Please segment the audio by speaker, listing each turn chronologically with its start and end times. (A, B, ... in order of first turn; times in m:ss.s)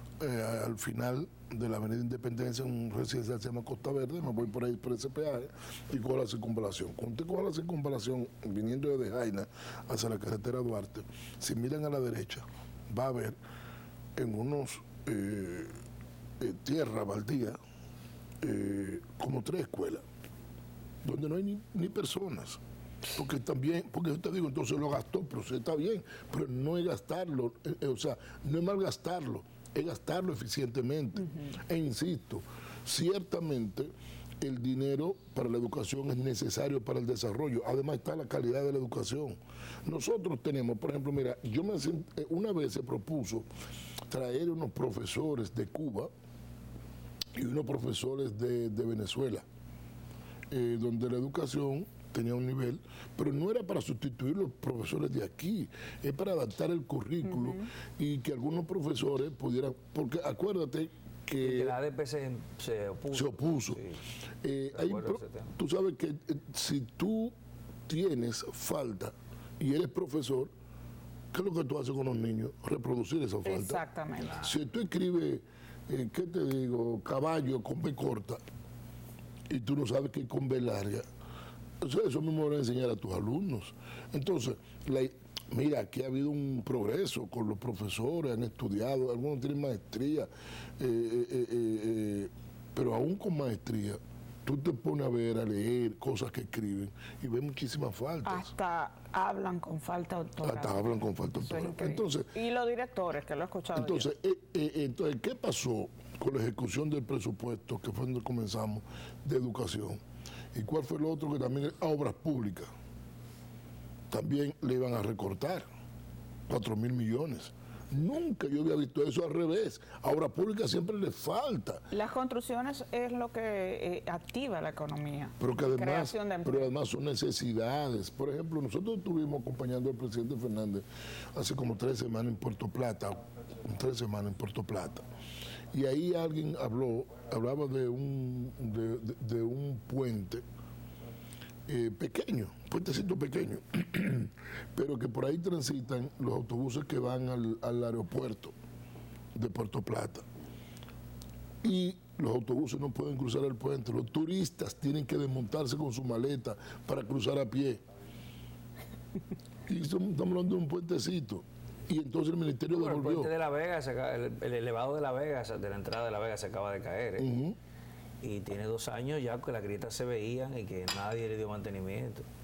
0:00.2-0:13.4 A
0:14.2-0:15.7 A
0:16.4-0:17.6 A
0:18.4-0:20.0 A
0:21.0-0:22.6 A
0:23.1-0:43.5 A
0:44.1-0:46.1 A
0:47.4-0:49.4 A
0:50.5-1:01.8 A
1:01.4-1:04.0 B
1:03.1-1:03.8 A
1:04.4-1:07.4 A
1:04.7-1:05.5 B
1:07.9-1:10.5 A
1:11.3-1:13.8 A
1:13.4-1:14.4 C
1:14.4-1:18.4 A
1:19.5-1:21.1 A
1:21.8-1:38.5 A
1:38.2-1:44.1 C
1:40.4-1:42.3 A
1:43.8-1:50.0 A
1:50.5-1:52.7 A
1:54.1-1:55.6 A
1:56.5-2:01.8 A
2:01.9-2:06.7 C
2:05.4-2:10.8 A
2:11.4-2:15.0 A
2:15.7-2:20.4 A
2:21.7-2:28.5 A
2:29.4-2:30.2 A
2:31.6-2:37.8 A
2:39.7-2:43.3 A
2:42.7-2:47.3 B
2:47.2-2:47.6 A
2:48.2-2:52.3 B